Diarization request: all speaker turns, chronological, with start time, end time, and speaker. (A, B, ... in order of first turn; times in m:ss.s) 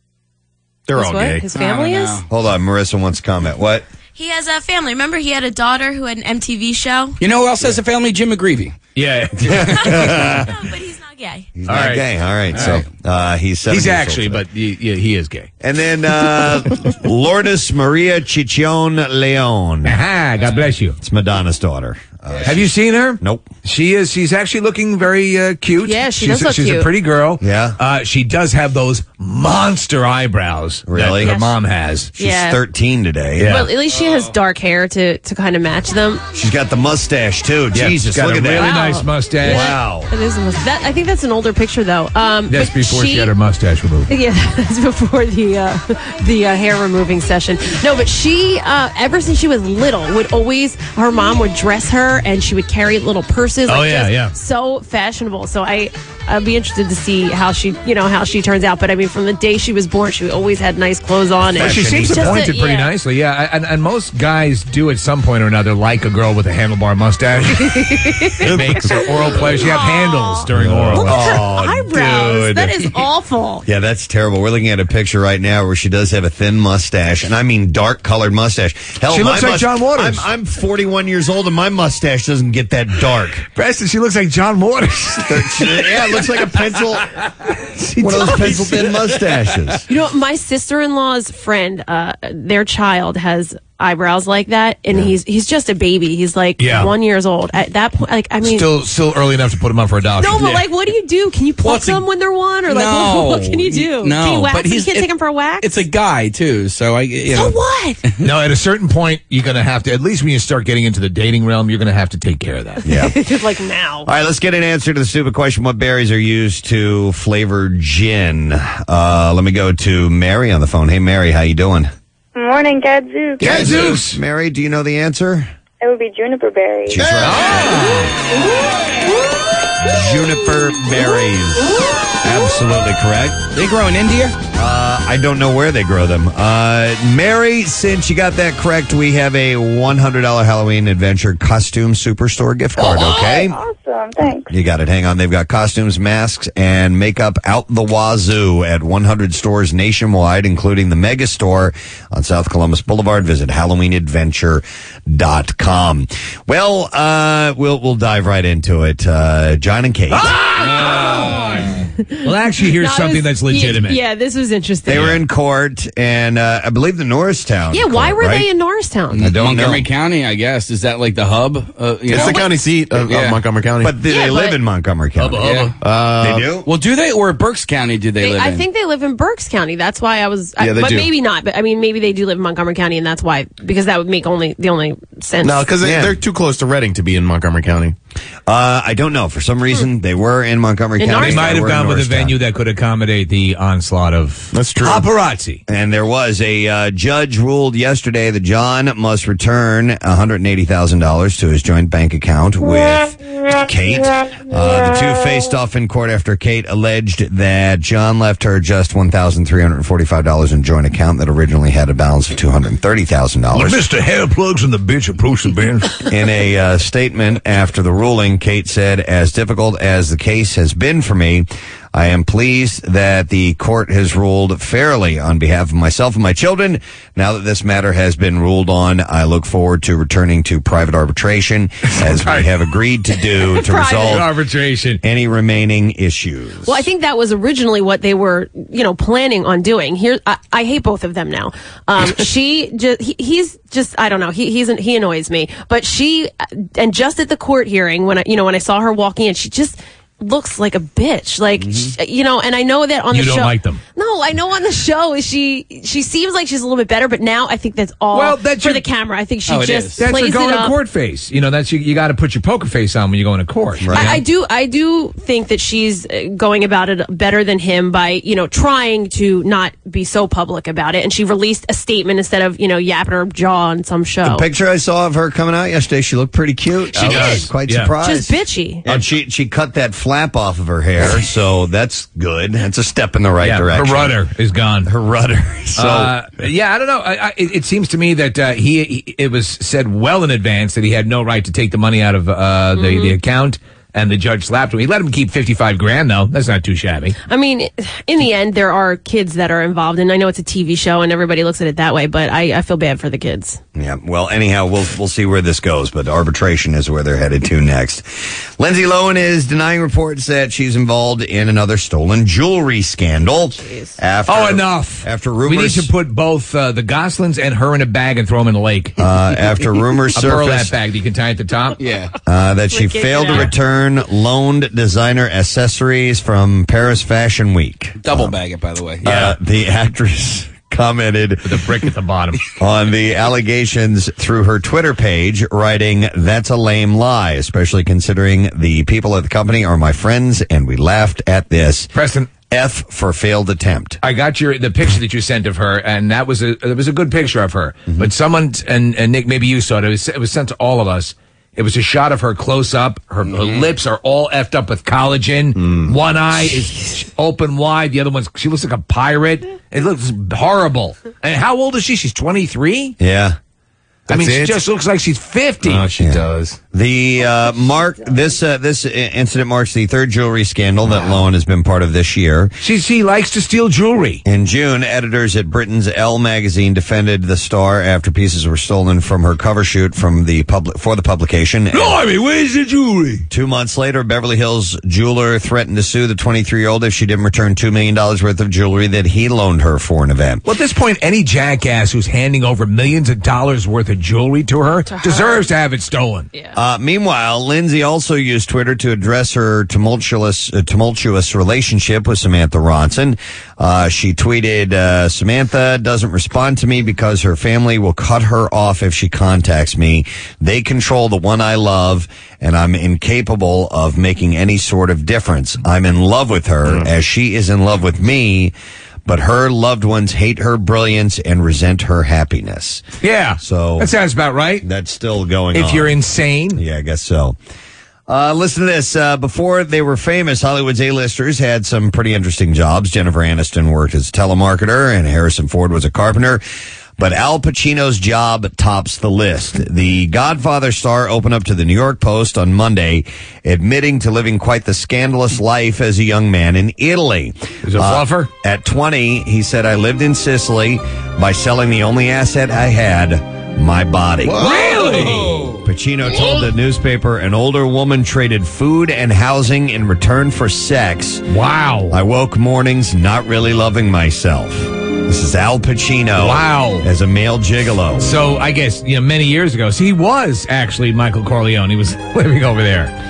0:00.9-0:01.4 A
0:00.9-0:02.2 B
0:01.5-0:02.3 C
0:02.3-0:03.9 D
0:04.1-0:07.2 E
0:07.2-0:08.8 C
0:08.9-0:10.5 F
0:09.6-0:10.4 D
0:09.8-0:11.5 E
0:11.6-0:14.4 D
0:11.7-0:12.8 F
0:13.7-0:15.5 F
0:15.6-0:20.0 D
0:19.8-0:21.0 F
0:21.0-0:23.5 D
0:22.4-0:32.1 F
0:25.8-0:26.9 B
0:27.4-0:27.8 D
0:30.9-0:31.4 D
0:31.2-0:31.5 B
0:32.2-0:33.6 D
0:32.2-0:32.6 B
0:33.4-0:33.7 F
0:33.4-0:36.2 B
0:36.3-0:38.8 D
0:37.7-0:40.0 F
0:38.6-0:43.3 B
0:39.4-0:40.1 D
0:42.5-0:44.1 F
0:44.1-1:02.9 B
0:53.6-0:54.3 F
1:01.5-1:02.5 D
1:01.6-1:11.4 F
1:07.6-1:13.6 B
1:08.4-1:09.1 D
1:10.5-1:12.8 D
1:13.6-1:23.4 D
1:19.1-1:20.3 F
1:23.5-1:26.0 F
1:25.3-1:27.1 D
1:27.6-1:29.0 F
1:28.0-1:29.8 D
1:29.9-1:38.7 B
1:36.6-1:36.9 F
1:38.4-1:40.6 F
1:40.2-1:45.7 B
1:41.6-1:42.0 C
1:42.6-1:47.6 C
1:47.3-1:48.0 B
1:48.2-1:52.8 F
1:52.8-1:53.2 D
1:52.9-1:54.1 B
1:54.0-2:01.9 D
2:02.3-2:03.8 G
2:03.4-2:04.2 F
2:03.4-2:05.5 D
2:05.8-2:07.0 G
2:06.9-2:08.1 D
2:07.2-2:08.1 F
2:09.8-2:13.4 D
2:13.5-2:14.4 C
2:14.5-2:23.6 D
2:22.8-2:24.5 G
2:24.5-2:40.4 D
2:40.1-2:41.7 F
2:40.6-2:41.5 C
2:42.2-2:44.0 F
2:42.8-2:45.1 B
2:44.9-2:48.5 D
2:44.9-2:45.2 F
2:47.7-2:49.3 B
2:49.1-2:53.4 C
2:49.2-2:49.9 D
2:52.1-2:53.9 A
2:52.1-2:52.5 B
2:53.8-2:55.5 D
2:54.1-2:54.6 B
2:55.2-2:55.7 F
2:55.4-2:55.7 C
2:55.8-2:56.5 A
2:56.2-2:56.7 D
2:56.6-2:58.6 C
2:58.2-3:05.7 B
3:00.6-3:01.0 A
3:05.4-3:07.9 A
3:05.8-3:06.2 D
3:08.5-3:12.3 D
3:11.0-3:11.5 B
3:11.1-3:15.6 F
3:14.5-3:15.1 A
3:15.7-3:33.8 D
3:33.5-3:35.9 F
3:36.1-3:54.3 D
3:51.9-3:52.5 F
3:53.6-3:54.2 B
3:54.0-3:55.0 F
3:55.0-3:56.8 D
3:56.6-4:20.7 B
4:11.6-4:11.9 C
4:13.1-4:13.8 F
4:18.1-4:18.8 F
4:19.5-4:20.0 C
4:20.0-4:24.2 F
4:23.8-4:24.2 D
4:23.9-4:34.4 B
4:34.2-4:38.3 D
4:37.0-4:37.9 F
4:37.0-4:37.4 B
4:38.0-4:38.8 B
4:38.8-4:44.2 D
4:43.4-4:44.9 F
4:44.8-4:46.1 D
4:45.8-4:57.2 F
4:52.8-4:53.2 B
4:57.3-5:03.6 B
5:03.7-5:15.9 D
5:13.5-5:13.9 B
5:14.3-5:19.0 F
5:19.0-5:20.7 D
5:20.1-5:21.8 F
5:21.8-5:22.1 C
5:22.2-5:28.4 D
5:22.7-5:23.5 B
5:28.0-5:29.2 C
5:29.0-5:31.6 D
5:29.1-5:29.3 F
5:31.4-5:32.4 F
5:32.6-5:41.9 D
5:41.9-5:42.3 F
5:42.5-5:44.0 D
5:44.0-6:03.0 F
6:03.0-6:03.4 D
6:04.1-6:05.9 F
6:04.1-6:04.6 A
6:05.7-6:06.6 A
6:05.7-6:12.5 D
6:12.6-6:14.2 F
6:14.2-6:22.0 D
6:21.7-6:23.2 F
6:23.3-6:30.4 D
6:30.4-6:36.3 F
6:34.9-6:35.5 B
6:36.5-6:58.5 D
6:59.0-7:02.8 D
7:03.0-7:04.6 F
7:03.4-7:03.9 D
7:04.6-7:06.0 D
7:05.5-7:06.6 F
7:06.5-7:07.4 D
7:08.1-7:16.4 D
7:17.0-7:34.5 D
7:27.6-7:28.3 F
7:34.2-7:35.4 A
7:34.4-7:35.5 F
7:35.6-7:41.2 D
7:41.3-7:42.0 F
7:41.9-7:48.1 D
7:46.2-7:46.9 F
7:48.0-7:52.9 F